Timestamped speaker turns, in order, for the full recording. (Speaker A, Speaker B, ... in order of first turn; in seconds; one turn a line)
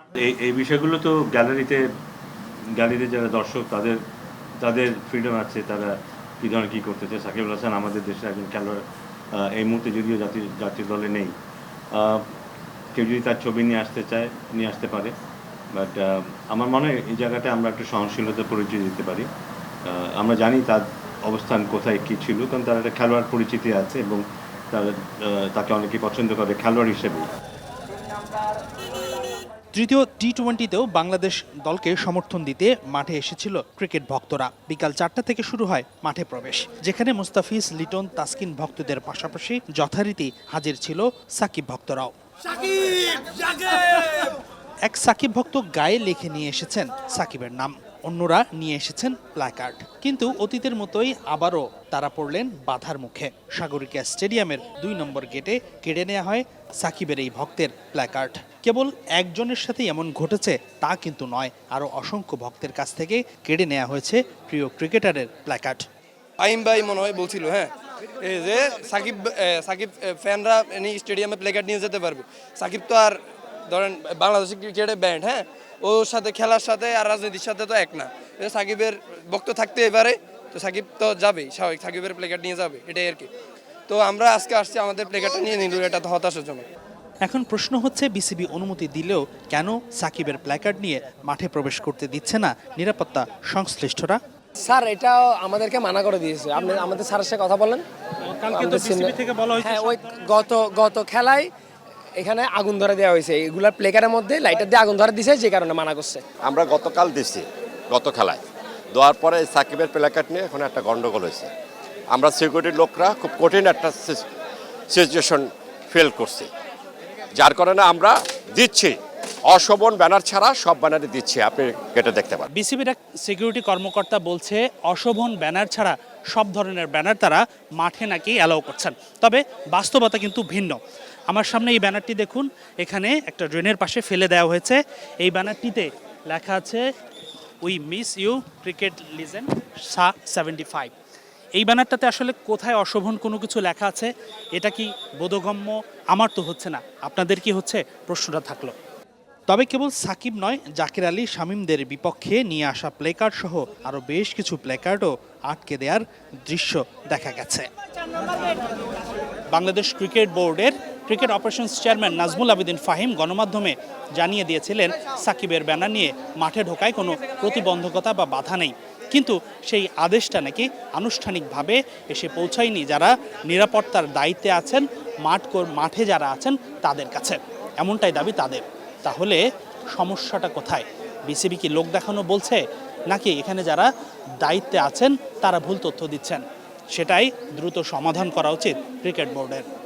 Speaker A: 0.2-1.8
Speaker A: 2.8-4.0
Speaker A: 4.6-11.3
Speaker A: 11.9-12.3
Speaker A: 12.9-15.1
Speaker A: 15.7-19.3
Speaker A: 19.9-24.2
Speaker A: 24.7-27.3
Speaker B: 29.7-42.1
Speaker B: 43.1-44.2
Speaker B: 44.9-65.8
Speaker C: 66.4-83.3
Speaker C: 83.9-86.7
Speaker B: 87.2-94.2
Speaker D: 94.6-97.8
Speaker B: 98.2-100.1
Speaker D: 98.5-101.5
Speaker D: 102.2-106.2
Speaker E: 106.4-108.4
Speaker E: 108.9-111.5
Speaker E: 112.1-114.2
Speaker E: 114.9-116.5
Speaker E: 117.3-119.0
Speaker E: 119.5-122.5
Speaker B: 122.5-130.8
Speaker B: 131.3-136.8
Speaker B: 137.6-140.9
Speaker B: 141.6-148.7
Speaker B: 149.5-157.7
Speaker B: 159.5-179.4
Speaker B: 179.9-183.9
Speaker B: 184.4-189.7